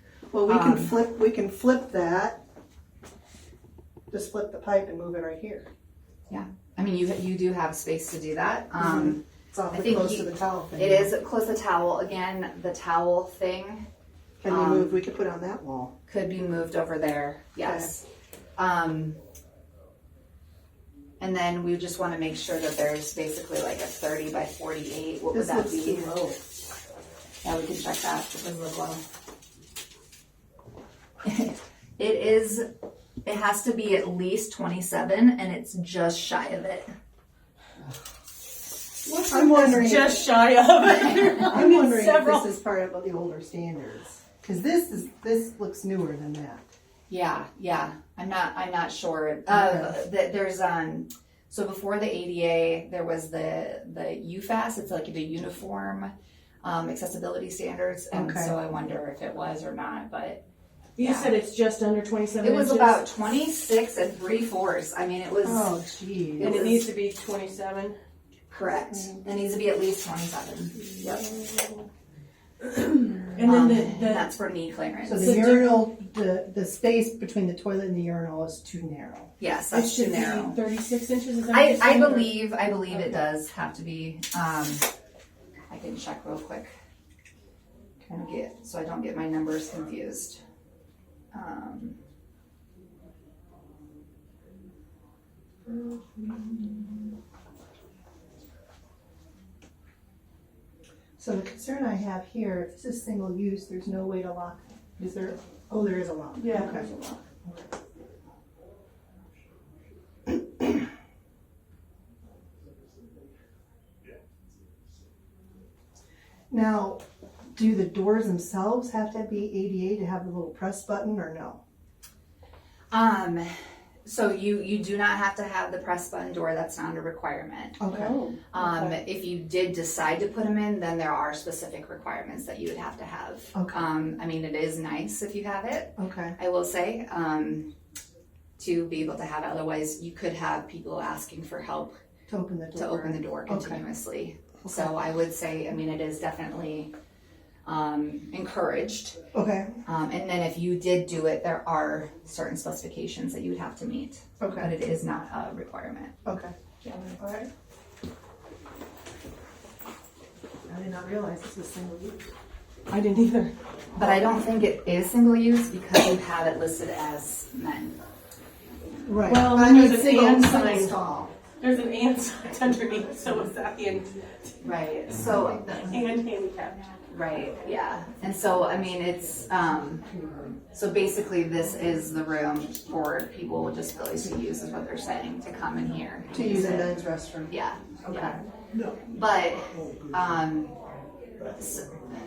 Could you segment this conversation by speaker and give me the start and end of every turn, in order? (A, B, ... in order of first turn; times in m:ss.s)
0:00.3-0:02.4 A
0:00.5-0:01.0 B
0:04.1-0:05.7 A
0:06.3-0:13.8 B
0:08.8-0:11.1 A
0:14.4-0:15.9 A
0:14.5-0:15.0 B
0:16.1-0:18.0 B
0:17.6-0:17.9 A
0:18.6-0:19.2 B
0:21.2-0:26.1 B
0:25.3-0:26.4 A
0:27.4-0:29.0 B
0:31.2-0:32.6 B
0:33.2-0:36.9 B
0:39.0-0:40.2 A
0:39.1-0:42.5 C
0:41.4-0:46.6 A
0:47.1-0:56.1 B
0:49.5-0:50.0 A
0:56.6-1:00.4 B
0:58.1-0:58.6 A
1:01.0-1:03.0 C
1:01.0-1:01.3 B
1:02.4-1:05.7 B
1:05.4-1:06.8 A
1:06.4-1:06.7 B
1:06.4-1:08.0 C
1:08.5-1:10.8 B
1:11.0-1:11.7 A
1:12.7-1:14.3 C
1:13.4-1:15.5 B
1:15.0-1:19.3 A
1:15.2-1:15.8 C
1:19.4-1:20.6 B
1:19.7-1:22.4 C
1:21.5-1:24.9 B
1:25.7-1:26.7 B
1:28.0-1:30.4 B
1:31.3-1:32.0 B
1:35.6-1:37.1 A
1:41.2-1:46.9 A
1:46.4-1:46.8 C
1:46.5-1:47.2 B
1:56.5-1:57.0 A
1:57.5-2:01.6 A
2:02.9-2:03.5 B
2:04.0-2:07.8 B
2:07.8-2:09.0 A
2:07.9-2:08.4 C
2:08.5-2:17.7 B
2:13.5-2:13.8 A
2:16.0-2:16.4 A
2:18.6-2:22.0 B
2:22.3-2:23.8 A
2:22.7-2:26.9 B
2:27.6-2:29.2 B
2:29.3-2:29.7 A
2:29.8-2:36.1 B
2:34.4-2:34.7 A
2:36.2-2:36.5 A
2:36.8-2:37.1 B
2:37.0-2:37.5 A
2:40.7-2:42.2 A
2:42.9-2:43.5 C
2:43.9-2:48.0 B
2:49.0-2:51.3 A
2:49.2-2:51.0 C
2:51.6-2:54.2 C
2:54.6-2:56.0 B
2:55.2-2:55.9 A
2:55.8-2:56.8 C
2:57.1-3:00.0 B
3:00.7-3:07.0 B
3:06.3-3:07.5 A
3:07.5-3:08.4 B
3:08.0-3:08.4 A
3:09.0-3:10.7 B
3:11.6-3:11.8 B